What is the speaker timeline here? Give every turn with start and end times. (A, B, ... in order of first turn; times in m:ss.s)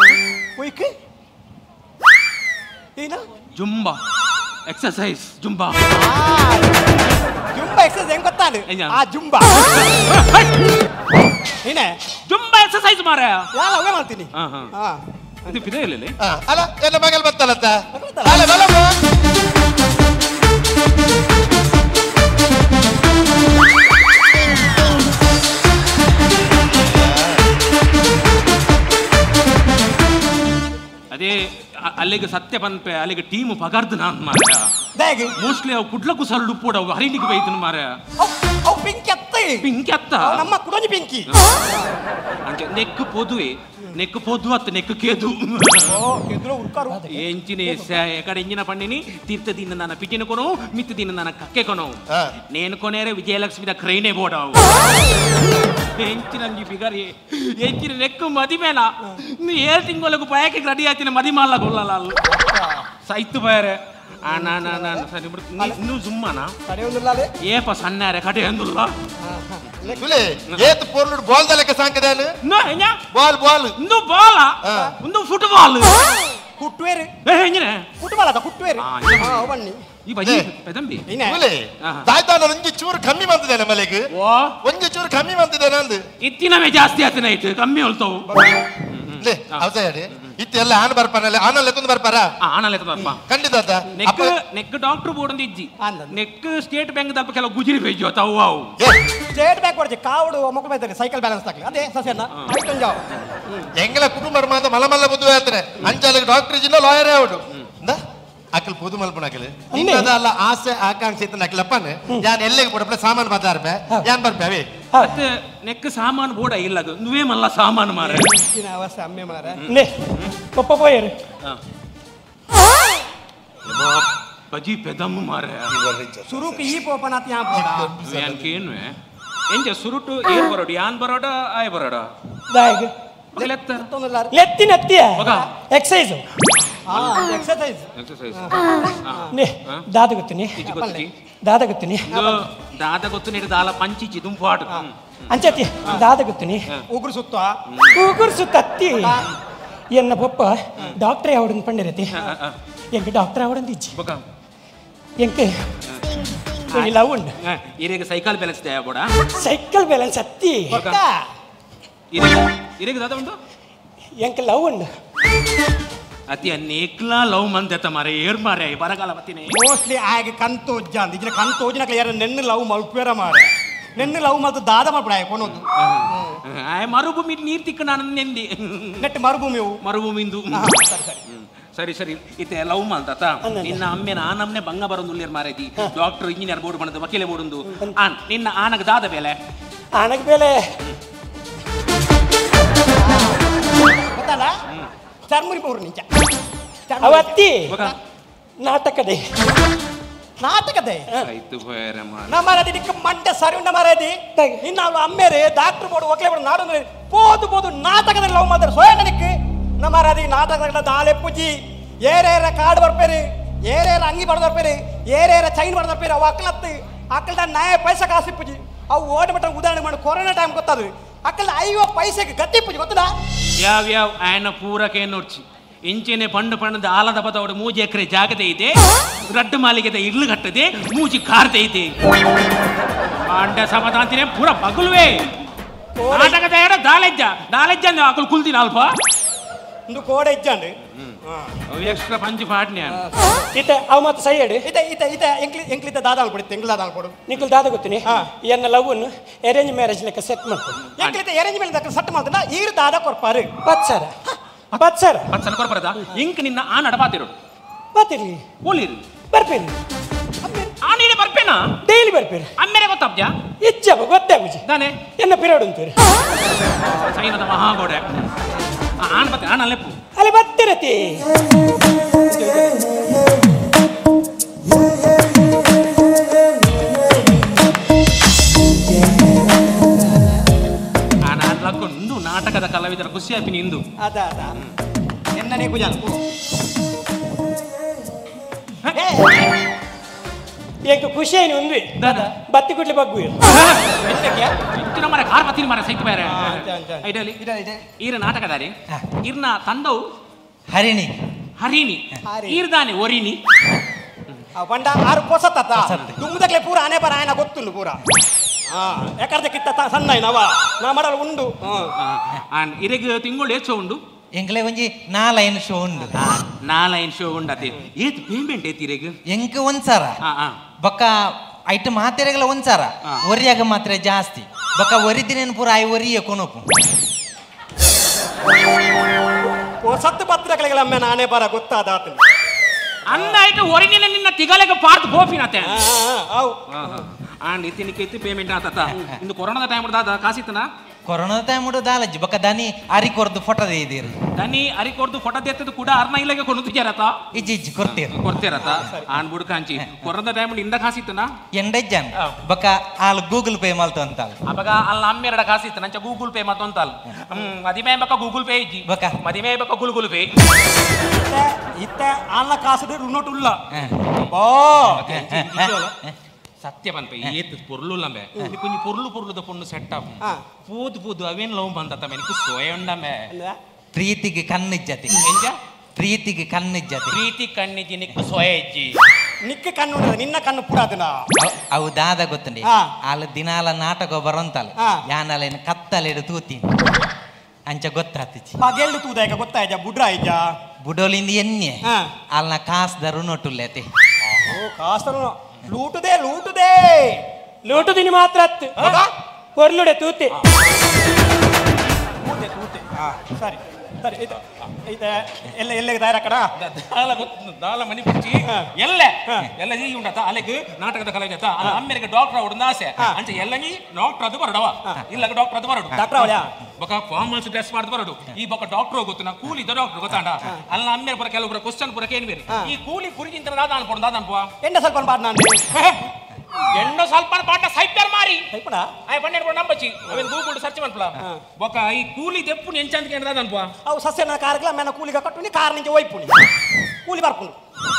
0:00.6-0:00.9 A
0:03.0-0:03.2 A
0:03.6-0:04.0 B
0:04.7-0:05.8 B
0:05.9-0:06.9 A
0:07.5-0:10.0 A
0:08.7-0:09.0 B
0:10.1-0:10.5 B
0:11.6-0:12.0 A
0:12.3-0:13.5 B
0:13.6-0:15.6 A
0:14.4-0:14.7 B
0:15.5-0:16.2 B
0:16.2-0:19.0 C
0:17.9-0:18.4 A
0:26.8-0:27.4 C
0:31.1-0:34.7 B
0:35.0-0:35.3 A
0:35.4-0:37.9 B
0:38.2-0:39.6 A
0:39.6-0:40.5 B
0:40.2-0:41.9 A
0:42.5-0:46.0 B
0:45.9-0:47.9 A
0:47.1-0:55.0 B
0:54.7-0:55.1 A
0:56.0-1:02.2 B
1:02.2-1:02.9 A
1:03.1-1:06.6 B
1:04.3-1:05.1 A
1:06.7-1:07.3 A
1:07.4-1:08.9 B
1:09.2-1:10.1 A
1:09.8-1:10.7 B
1:10.0-1:12.3 C
1:12.4-1:13.0 B
1:13.1-1:13.8 C
1:13.8-1:16.1 B
1:14.6-1:14.9 C
1:16.6-1:17.1 A
1:17.2-1:17.9 B
1:18.0-1:19.8 A
1:18.8-1:19.5 B
1:20.1-1:21.0 B
1:20.2-1:20.5 C
1:21.1-1:21.4 A
1:21.2-1:24.1 C
1:24.1-1:24.6 B
1:24.6-1:26.0 C
1:26.2-1:28.3 B
1:28.3-1:28.6 A
1:28.9-1:29.7 B
1:29.2-1:32.3 C
1:32.5-1:33.2 B
1:33.3-1:34.3 C
1:34.0-1:38.7 B
1:35.8-1:36.2 A
1:39.3-1:43.7 A
1:43.8-1:48.0 C
1:48.6-1:54.7 C
1:49.7-1:50.1 D
1:55.0-1:58.3 B
1:58.0-1:59.6 A
1:59.7-1:59.9 D
2:00.6-2:01.1 D
2:03.6-2:05.7 B
2:05.7-2:06.8 C
2:06.3-2:07.9 A
2:07.5-2:08.6 C
2:08.0-2:09.0 B
2:09.5-2:12.1 B
2:12.5-2:12.9 D
2:13.3-2:13.9 B
2:13.4-2:14.3 A
2:14.3-2:16.2 D
2:15.2-2:15.5 B
2:16.9-2:19.3 A
2:16.9-2:17.2 B
2:18.0-2:19.8 B
2:19.3-2:20.6 D
2:20.6-2:21.1 B
2:20.6-2:21.1 A
2:21.4-2:22.1 D
2:22.1-2:22.4 A
2:22.1-2:25.0 B
2:25.3-2:26.7 D
2:26.9-2:27.6 A
2:27.7-2:28.0 B
2:28.0-2:29.2 D
2:29.9-2:32.1 D
2:32.2-2:32.6 B
2:32.9-2:34.0 D
2:33.9-2:34.2 B
2:35.2-2:35.5 D
2:36.7-2:37.3 D
2:37.4-2:39.1 B
2:39.4-2:40.8 D
2:40.7-2:41.3 A
2:40.7-2:41.0 B
2:42.1-2:43.4 B
2:44.2-2:44.9 D
2:46.3-2:49.6 B
2:49.6-2:56.4 A
2:55.5-2:59.0 B
2:59.0-2:59.8 A
2:59.8-3:09.4 B
3:00.5-3:01.2 A
3:03.4-3:03.8 D
3:10.0-3:10.6 D
3:13.0-3:14.5 A
3:15.3-3:16.1 A
3:16.9-3:18.0 A
3:17.0-3:17.7 D
3:17.7-3:18.0 B
3:18.6-3:19.2 D
3:20.4-3:21.1 A
3:21.2-3:22.4 B
3:22.3-3:43.1 A
3:24.4-3:24.6 D
3:43.6-3:48.8 B
3:49.3-3:51.9 B
3:53.2-3:55.3 B
3:56.0-3:56.4 A
3:56.1-3:59.0 B
3:59.9-4:00.7 A
4:01.2-4:02.0 A
4:01.7-4:03.0 B
4:02.9-4:03.5 A
4:03.5-4:04.7 D
4:04.6-4:07.2 A
4:07.3-4:10.8 D
4:11.0-4:13.5 A
4:13.6-4:14.1 D
4:14.7-4:15.3 D
4:15.3-4:17.4 B
4:18.0-4:18.4 D
4:18.6-4:19.0 B
4:19.3-4:19.8 D
4:20.4-4:20.7 A
4:20.8-4:21.7 B
4:21.8-4:22.5 D
4:22.6-4:23.3 B
4:23.6-4:24.6 D
4:24.7-4:25.0 B
4:25.2-4:26.0 D
4:26.8-4:28.3 B
4:29.0-4:30.0 B
4:30.2-4:31.2 D
4:41.3-4:43.8 B
4:44.0-4:44.6 A
4:45.4-4:46.2 A
4:48.9-4:49.5 A
4:50.9-4:53.4 D
4:52.0-4:52.3 B
4:54.0-4:54.6 A
4:54.7-4:57.4 B
4:56.3-4:57.8 A
4:58.0-5:00.0 B
5:00.7-5:01.1 E
5:01.6-5:03.4 B
5:02.3-5:02.6 A
5:04.6-5:08.0 A
5:05.8-5:06.2 E
5:08.7-5:11.9 A
5:12.0-5:14.0 B
5:14.4-5:16.2 E
5:16.2-5:19.2 B
5:19.3-5:20.2 E
5:20.3-5:20.6 B
5:20.8-5:26.7 E
5:29.8-5:32.2 A
5:33.1-5:35.8 B
5:33.1-5:33.4 A
5:35.6-5:37.0 A
5:36.7-5:40.7 B
5:41.1-5:44.2 E
5:44.4-5:47.3 B
5:47.3-5:48.3 E
5:47.8-5:51.3 B
5:51.5-5:54.4 E
5:54.5-6:00.3 B
5:58.9-5:59.2 E
6:01.1-6:03.6 A
6:03.7-6:04.0 E
6:04.3-6:05.0 A
6:04.9-6:05.9 B
6:05.1-6:06.2 E
6:06.6-6:13.3 B
6:13.3-6:13.6 A
6:13.9-6:15.2 E
6:15.2-6:15.6 B
6:16.0-6:17.2 E
6:17.1-6:19.0 B
6:19.4-6:21.3 A
6:21.4-6:26.7 E
6:27.7-6:28.6 E
6:28.6-6:30.5 A
6:30.8-6:33.8 E
6:34.3-6:37.2 A
6:37.7-6:38.8 D
6:38.8-6:39.0 B
6:38.8-6:39.1 A
6:39.6-6:40.4 D
6:42.2-6:46.5 A
6:46.6-7:04.5 B
6:56.0-6:56.5 A
7:04.6-7:05.6 A
7:05.7-7:06.0 B
7:06.7-7:08.5 B
7:08.5-7:08.9 A
7:09.1-7:13.7 B
7:13.9-7:16.4 A
7:17.1-7:17.6 A